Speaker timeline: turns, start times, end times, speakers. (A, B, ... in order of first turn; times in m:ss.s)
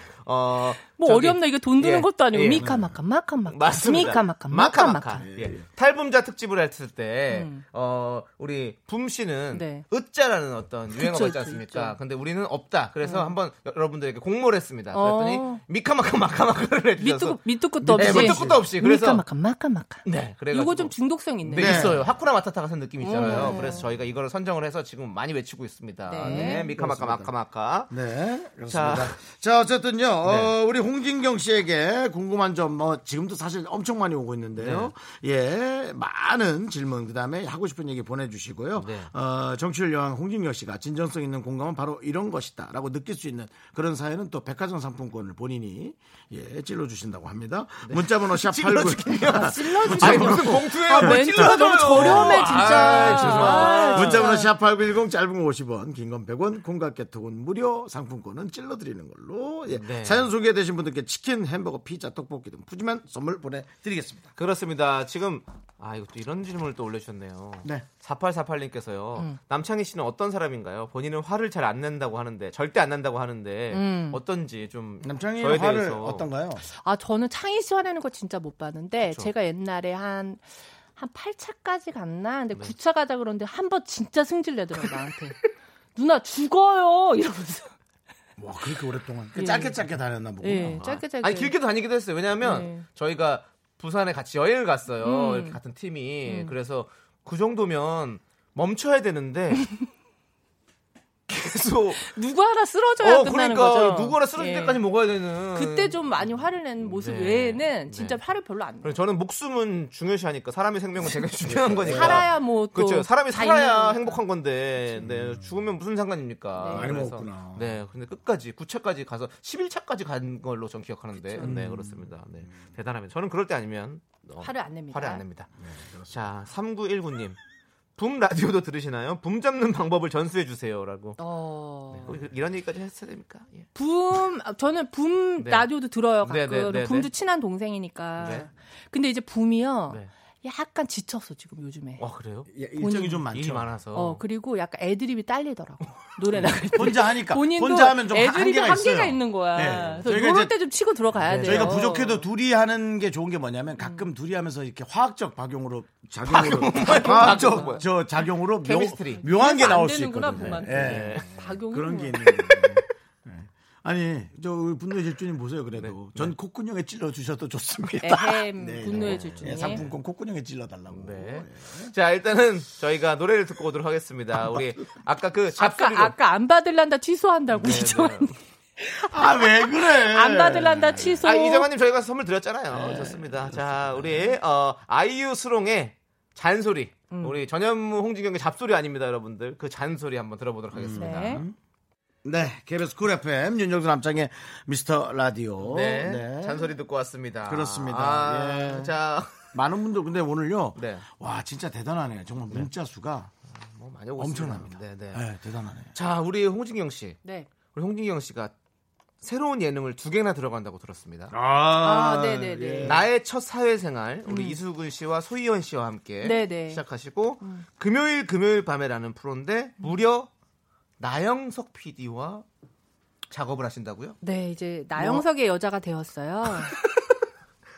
0:00.2-0:02.7 A
0:01.0-0:05.3 B
0:02.6-0:03.0 C
0:03.5-0:17.4 A
0:05.2-0:05.6 C
0:07.3-0:07.6 B
0:09.5-0:09.8 B
0:11.0-0:12.0 B
0:13.0-0:13.3 B
0:14.9-0:15.6 B
0:17.0-0:21.9 B
0:17.8-0:18.7 C
0:18.0-0:19.2 A
0:20.0-0:20.9 A
0:21.5-0:27.9 A
0:21.5-0:22.1 C
0:23.0-0:23.8 B
0:23.2-0:23.9 C
0:26.1-0:26.7 B
0:26.2-0:27.3 C
0:27.9-1:04.3 C
0:28.7-0:29.2 A
0:30.2-0:30.5 A
0:34.6-0:34.9 A
0:38.8-0:39.1 A
0:47.8-0:54.4 A
0:49.2-0:54.5 B
0:59.7-1:00.3 A
1:04.4-1:16.3 A
1:13.7-1:14.2 B
1:15.0-1:16.6 C
1:16.8-1:20.4 B
1:19.0-1:19.3 A
1:21.0-1:25.4 B
1:26.0-1:27.8 B
1:28.4-1:30.8 C
1:29.4-1:29.8 B
1:30.4-1:31.5 B
1:30.8-1:39.6 A
1:32.4-1:32.9 B
1:35.0-1:35.6 B
1:36.2-1:36.5 B
1:41.3-1:42.1 A
1:42.0-1:44.8 B
1:43.0-1:46.2 A
1:45.6-1:48.9 B
1:46.8-1:48.2 A
1:48.8-2:05.5 A
1:51.4-1:52.3 C
1:51.9-1:54.2 B
1:55.0-1:55.5 C
1:56.6-1:56.9 B
1:56.7-1:57.8 C
2:01.2-2:01.7 B
2:01.4-2:02.6 C
2:04.4-2:05.2 B
2:05.6-2:06.2 C
2:06.1-2:07.4 A
2:08.0-2:11.2 A
2:11.2-2:12.2 B
2:12.0-2:13.7 A
2:13.8-2:22.0 B
2:15.4-2:15.7 A
2:16.2-2:17.1 A
2:18.2-2:18.5 A
2:22.0-2:22.5 A
2:22.5-2:23.7 C
2:22.8-2:23.3 B
2:23.3-2:24.2 A
2:23.9-2:32.3 B
2:26.7-2:30.6 C
2:29.6-2:30.0 A
2:31.1-2:51.9 C
2:31.2-2:31.9 A
2:33.8-2:34.1 B
2:36.3-2:37.9 A
2:36.8-2:37.8 B
2:38.6-2:39.2 A
2:39.1-2:42.5 B
2:40.4-2:41.3 A
2:45.8-2:46.3 A
2:48.0-2:49.8 B
2:49.4-2:49.9 A
2:50.9-2:56.2 A
2:54.4-2:54.7 C
2:55.6-3:01.7 B
2:57.5-2:58.3 A
2:58.9-3:01.2 C
3:01.2-3:11.4 A
3:02.7-3:04.3 C
3:07.1-3:07.4 B
3:10.7-3:11.6 C
3:11.0-3:11.4 B
3:12.2-3:16.7 C
3:15.6-3:19.5 A
3:17.5-3:18.9 C
3:19.5-3:23.3 C
3:20.8-3:21.1 A
3:23.5-3:25.2 A
3:24.2-3:25.9 C
3:25.9-3:27.2 A
3:27.2-3:27.5 B
3:27.7-3:28.5 A
3:29.2-3:31.3 A
3:31.3-3:33.1 C
3:31.8-3:33.0 B
3:32.8-3:40.3 A
3:34.3-3:34.6 B
3:36.2-3:36.8 B
3:41.0-3:42.4 A
3:43.3-3:44.2 A
3:44.2-3:46.7 B
3:45.0-3:45.2 A
3:46.7-3:47.1 A